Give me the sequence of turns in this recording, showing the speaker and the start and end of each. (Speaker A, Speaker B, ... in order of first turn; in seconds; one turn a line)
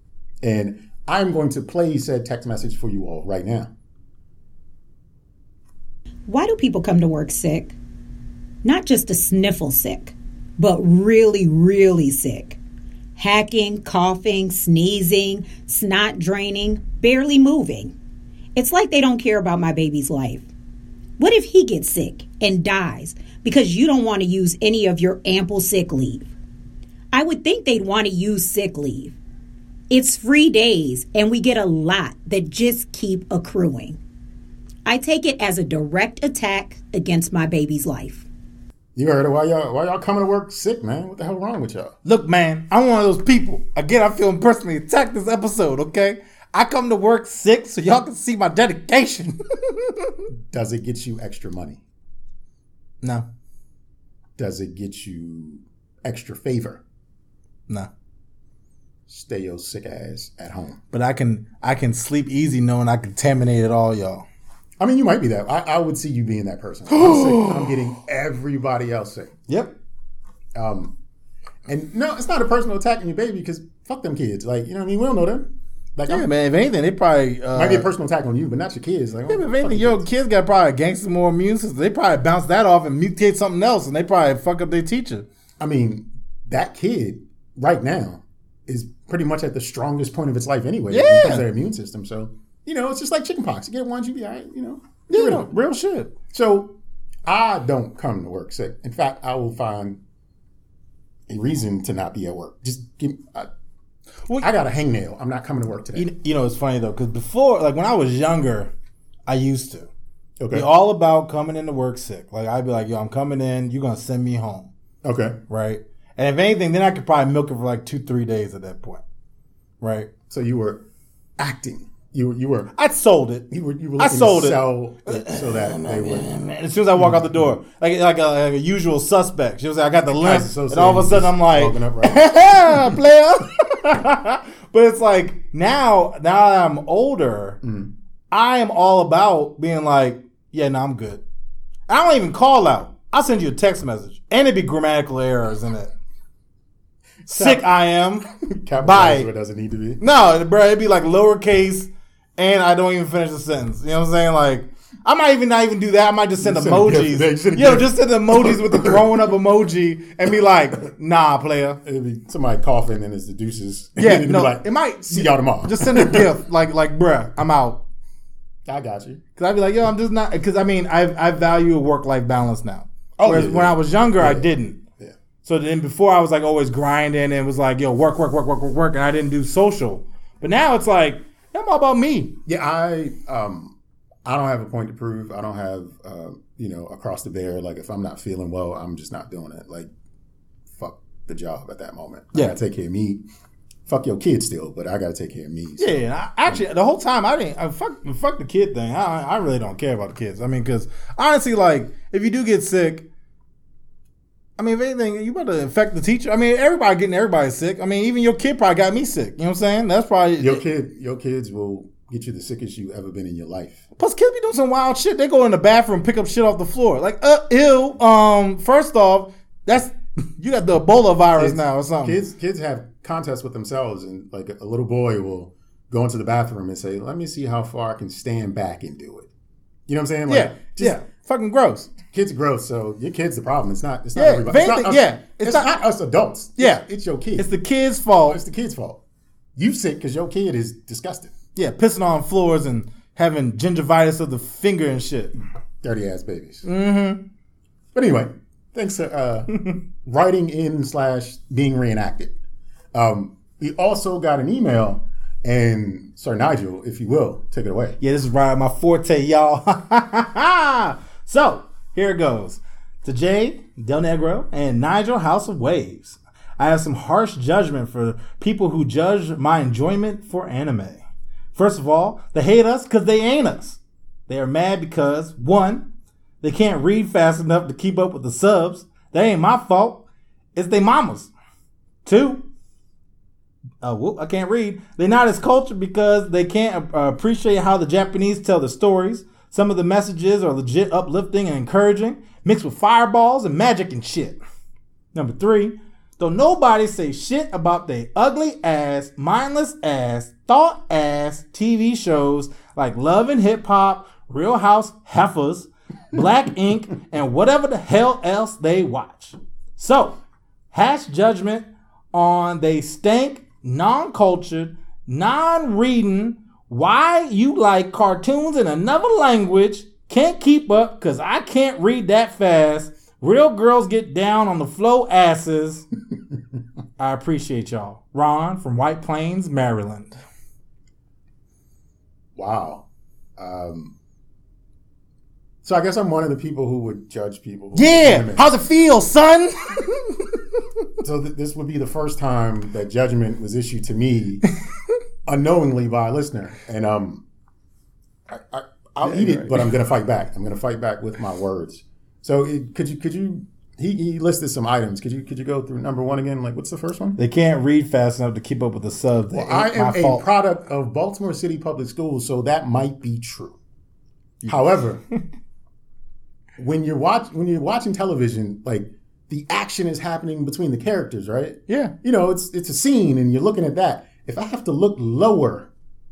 Speaker A: 0.4-3.7
Speaker B: 6.3-7.8
Speaker B: 8.6-12.6
Speaker B: 13.2-17.9
Speaker B: 18.6-20.5
Speaker B: 21.2-26.3
Speaker B: 27.1-29.1
Speaker B: 29.9-34.0
Speaker B: 34.8-38.3
Speaker A: 38.9-41.9
Speaker C: 42.0-50.2
Speaker A: 50.3-51.8
Speaker A: 54.4-56.8
Speaker A: 59.1-60.8
Speaker C: 60.9-64.2
Speaker A: 64.8-69.4
Speaker C: 66.9-67.7
Speaker C: 69.5-69.7
Speaker A: 70.5-70.9
Speaker A: 71.7-76.3
Speaker C: 76.1-77.9
Speaker A: 77.5-80.0
Speaker C: 79.3-85.2
Speaker A: 85.6-95.5
Speaker C: 90.9-91.4
Speaker C: 95.1-96.1
Speaker A: 96.3-96.7
Speaker A: 97.2-100.0
Speaker A: 101.3-103.5
Speaker A: 104.4-106.1
Speaker C: 105.9-108.7
Speaker C: 109.3-109.9
Speaker A: 110.4-110.7
Speaker C: 110.5-114.7
Speaker A: 115.0-115.4
Speaker C: 115.5-119.0
Speaker C: 119.8-120.1
Speaker A: 120.3-120.8
Speaker A: 121.4-122.7
Speaker C: 122.7-123.5
Speaker A: 123.5-126.3
Speaker C: 124.0-137.6
Speaker A: 130.1-133.0
Speaker A: 137.6-137.9
Speaker C: 138.3-141.2
Speaker C: 141.9-145.9
Speaker A: 147.2-147.6
Speaker C: 147.3-148.3
Speaker A: 148.4-150.0
Speaker C: 148.8-149.3
Speaker C: 150.0-161.8
Speaker A: 156.4-159.2
Speaker A: 161.8-166.4
Speaker C: 164.0-167.8
Speaker A: 168.7-169.2
Speaker C: 169.4-174.8
Speaker A: 173.2-175.1
Speaker C: 175.4-182.4
Speaker A: 182.4-189.9
Speaker A: 190.7-193.2
Speaker A: 193.9-196.6
Speaker C: 195.8-203.1
Speaker C: 204.6-210.6
Speaker A: 210.4-213.8
Speaker C: 214.0-222.2
Speaker A: 221.4-229.3
Speaker A: 229.9-231.0
Speaker C: 230.3-231.9
Speaker A: 232.1-237.5
Speaker C: 234.2-235.7
Speaker C: 236.6-236.8
Speaker C: 237.4-238.4
Speaker A: 238.2-239.0
Speaker A: 239.6-241.3
Speaker C: 241.5-245.3
Speaker A: 245.8-246.7
Speaker C: 246.6-247.2
Speaker A: 247.9-252.3
Speaker A: 252.9-258.0
Speaker C: 258.0-271.0
Speaker C: 271.5-275.9
Speaker C: 276.4-281.3
Speaker C: 282.0-282.4
Speaker C: 283.8-294.4
Speaker C: 295.1-310.2
Speaker C: 310.7-325.9
Speaker C: 327.0-330.2
Speaker A: 332.4-332.8
Speaker A: 333.4-333.9
Speaker A: 335.6-338.5
Speaker C: 337.7-340.4
Speaker A: 341.0-344.4
Speaker A: 345.2-347.2
Speaker A: 348.3-357.2
Speaker C: 349.0-349.6
Speaker C: 357.2-360.2
Speaker A: 359.3-363.6
Speaker A: 364.5-365.0
Speaker A: 366.6-375.7
Speaker C: 371.7-371.9